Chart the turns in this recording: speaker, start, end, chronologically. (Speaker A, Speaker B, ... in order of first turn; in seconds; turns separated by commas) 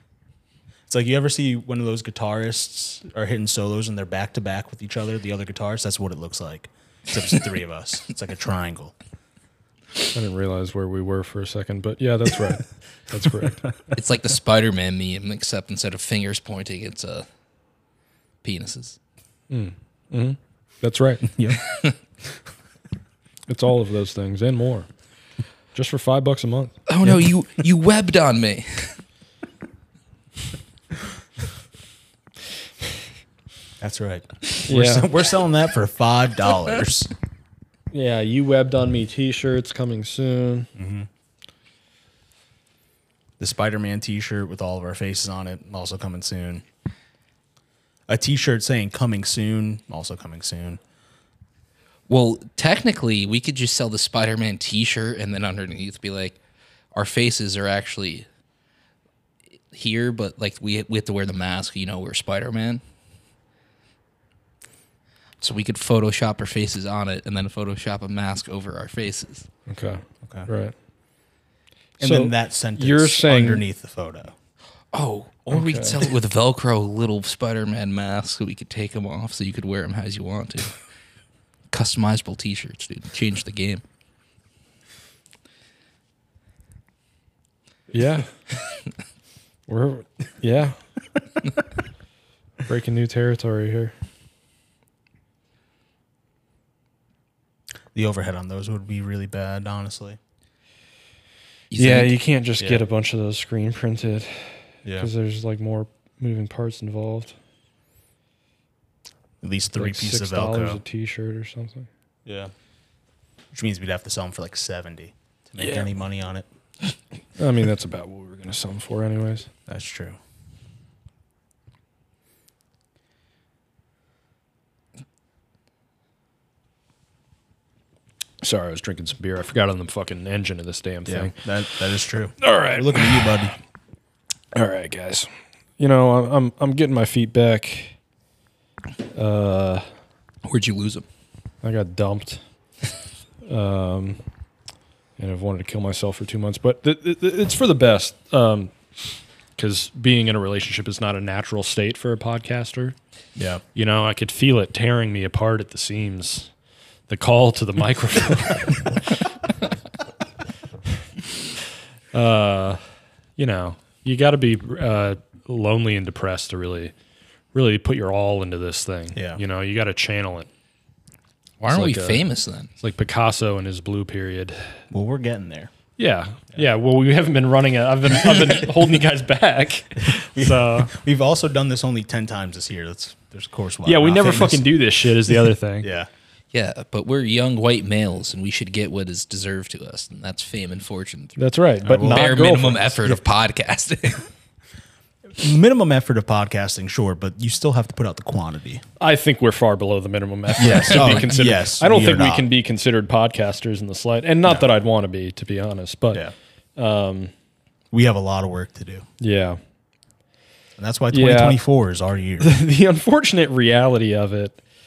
Speaker A: 0.9-8.9, Speaker B: 10.1-13.6, Speaker C: 13.9-17.3, Speaker C: 18.4-19.0, Speaker B: 19.5-21.3, Speaker A: 21.3-21.6, Speaker B: 23.5-24.9, Speaker B: 25.7-26.7, Speaker C: 26.9-28.9, Speaker A: 33.8-37.1, Speaker B: 34.6-35.1, Speaker B: 37.9-40.7, Speaker A: 40.8-41.1, Speaker A: 43.4-46.6, Speaker A: 48.1-50.8, Speaker C: 52.1-56.4, Speaker C: 56.9-58.3, Speaker C: 59.7-62.8, Speaker C: 65.4-69.5, Speaker B: 69.7-70.7, Speaker A: 70.2-70.5, Speaker A: 72.0-74.3, Speaker B: 72.0-73.6, Speaker C: 74.9-80.8, Speaker B: 75.5-76.0, Speaker C: 81.7-83.8, Speaker B: 87.9-88.3, Speaker B: 89.7-90.8, Speaker B: 92.6-93.9, Speaker A: 97.9-100.2, Speaker C: 101.7-102.2, Speaker B: 101.8-107.3, Speaker A: 104.8-105.1, Speaker A: 109.4-110.8, Speaker B: 109.8-111.9, Speaker A: 112.3-112.5, Speaker A: 113.5-116.5, Speaker B: 115.6-115.9, Speaker B: 117.4-119.5, Speaker A: 119.7-120.2, Speaker B: 128.4-131.8, Speaker A: 131.1-133.5, Speaker B: 132.4-133.5, Speaker B: 134.5-137.9, Speaker B: 139.1-139.8, Speaker C: 140.4-141.1, Speaker B: 141.6-142.4, Speaker B: 143.5-144.2, Speaker B: 145.2-148.7, Speaker B: 149.6-153.0, Speaker A: 153.4-153.6, Speaker B: 153.8-156.5, Speaker B: 157.1-159.2, Speaker B: 162.1-162.8, Speaker B: 163.4-166.9, Speaker B: 167.5-170.5, Speaker A: 169.2-169.4, Speaker C: 171.6-172.7, Speaker B: 171.7-172.2, Speaker B: 172.8-174.7, Speaker A: 174.9-175.7, Speaker B: 176.0-180.9, Speaker A: 180.1-186.1, Speaker B: 183.8-185.9, Speaker C: 186.5-191.4, Speaker B: 191.4-192.9, Speaker A: 191.8-193.2, Speaker C: 192.0-194.3, Speaker A: 195.3-198.8, Speaker B: 199.0-206.2, Speaker A: 200.6-202.5, Speaker C: 200.9-201.3, Speaker B: 206.8-207.3, Speaker A: 207.9-209.1, Speaker B: 209.2-209.6, Speaker A: 210.8-212.5, Speaker B: 211.1-211.6, Speaker B: 212.4-214.6